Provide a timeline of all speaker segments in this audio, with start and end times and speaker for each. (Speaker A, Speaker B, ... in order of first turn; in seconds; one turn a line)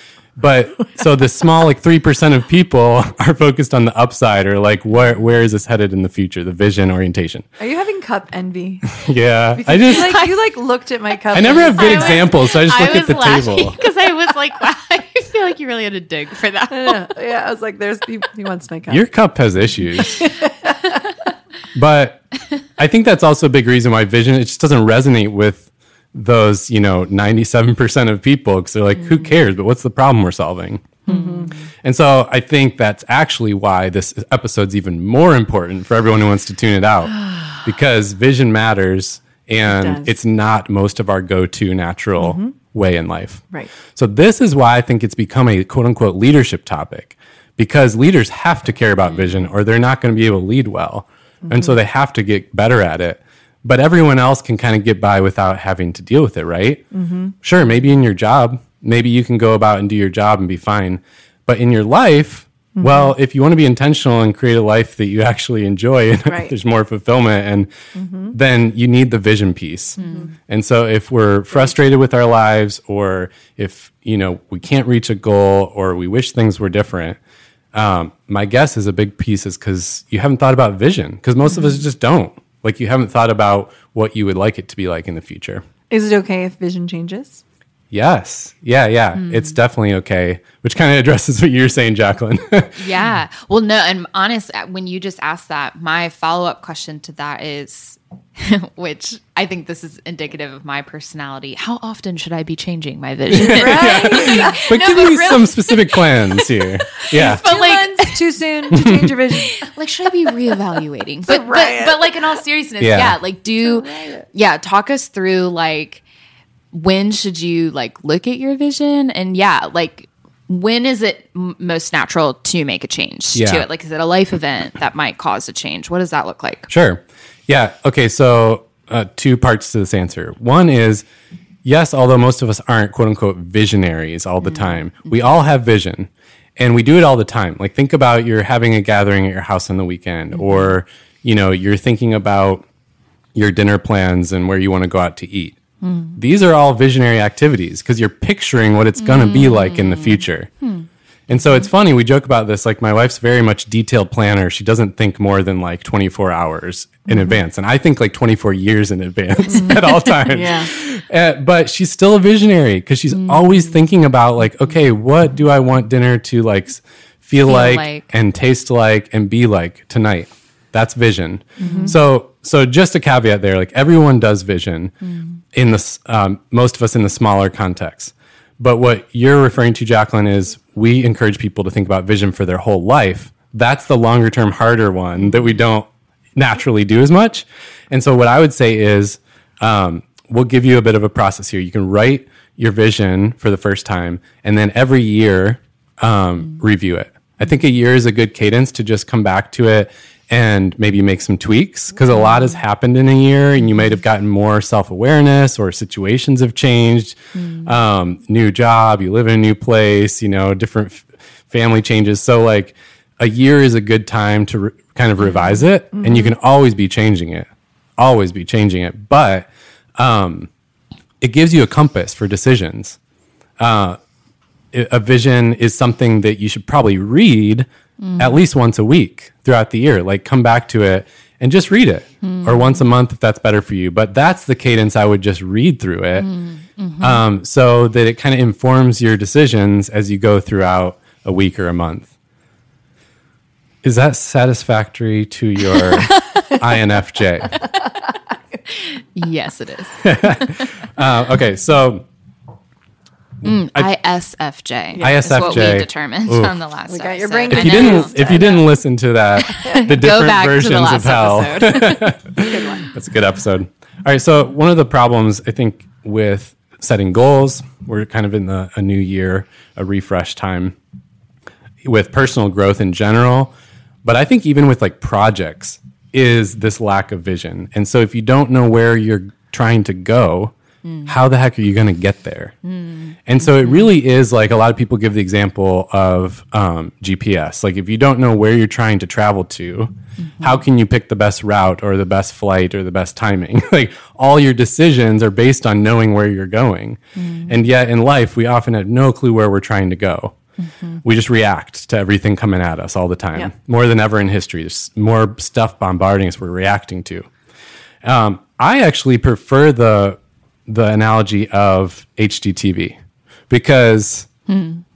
Speaker A: 0.4-7.5
Speaker B: 7.6-8.9
Speaker A: 8.9-10.2
Speaker B: 9.6-12.3
Speaker C: 9.9-10.3
Speaker A: 11.3-13.8
Speaker C: 11.4-17.1
Speaker B: 16.7-19.0
Speaker A: 18.9-20.2
Speaker B: 20.2-21.0
Speaker A: 21.7-22.2
Speaker A: 22.8-31.0
Speaker C: 31.1-31.6
Speaker B: 31.1-31.6
Speaker A: 31.8-56.8
Speaker B: 39.7-40.1
Speaker B: 42.2-42.5
Speaker B: 51.4-51.8
Speaker B: 56.9-57.3
Speaker A: 57.4-67.7
Speaker B: 62.8-63.1
Speaker B: 68.0-68.3
Speaker A: 68.3-77.2
Speaker C: 70.0-70.3
Speaker B: 70.0-70.3
Speaker A: 77.7-85.6
Speaker C: 81.5-81.8
Speaker B: 85.9-87.4
Speaker A: 87.9-92.9
Speaker C: 89.2-89.6
Speaker C: 92.8-108.3
Speaker A: 103.3-107.4
Speaker B: 103.5-104.6
Speaker B: 107.0-109.7
Speaker A: 108.7-109.1
Speaker C: 109.4-116.0
Speaker B: 110.3-110.5
Speaker B: 111.2-112.2
Speaker A: 112.8-113.2
Speaker B: 113.6-114.3
Speaker C: 116.7-126.7
Speaker A: 123.3-123.7
Speaker A: 126.7-131.1
Speaker A: 131.7-142.7
Speaker C: 134.5-134.8
Speaker C: 140.4-140.7
Speaker A: 143.3-145.6
Speaker C: 145.8-146.2
Speaker A: 146.2-150.5
Speaker C: 149.0-150.9
Speaker A: 151.3-174.9
Speaker B: 159.6-160.7
Speaker C: 163.2-163.6
Speaker C: 167.4-168.1
Speaker B: 171.6-171.9
Speaker C: 171.6-171.9
Speaker C: 175.0-175.4
Speaker A: 175.5-220.5
Speaker C: 202.1-202.6
Speaker C: 207.4-207.7
Speaker C: 215.2-215.6
Speaker B: 215.9-216.3
Speaker A: 221.2-223.0
Speaker A: 223.6-224.0
Speaker A: 224.7-236.3
Speaker C: 228.0-228.4
Speaker C: 232.2-232.8
Speaker C: 236.2-237.2
Speaker A: 237.0-242.1
Speaker A: 243.8-247.7
Speaker C: 246.1-246.4
Speaker C: 248.7-250.7
Speaker A: 250.0-252.1
Speaker A: 253.4-253.9
Speaker C: 253.4-258.5
Speaker B: 254.9-255.8
Speaker A: 255.0-256.6
Speaker B: 256.9-258.7
Speaker A: 257.5-270.8
Speaker C: 259.4-262.2
Speaker B: 262.4-262.9
Speaker A: 271.8-280.5
Speaker C: 280.9-281.1
Speaker A: 281.1-282.6
Speaker C: 282.6-283.9
Speaker A: 283.3-300.4
Speaker C: 290.2-290.6
Speaker C: 297.2-297.5
Speaker C: 300.6-301.0
Speaker A: 301.0-307.3
Speaker A: 308.0-313.0
Speaker A: 313.5-314.3
Speaker C: 314.5-314.8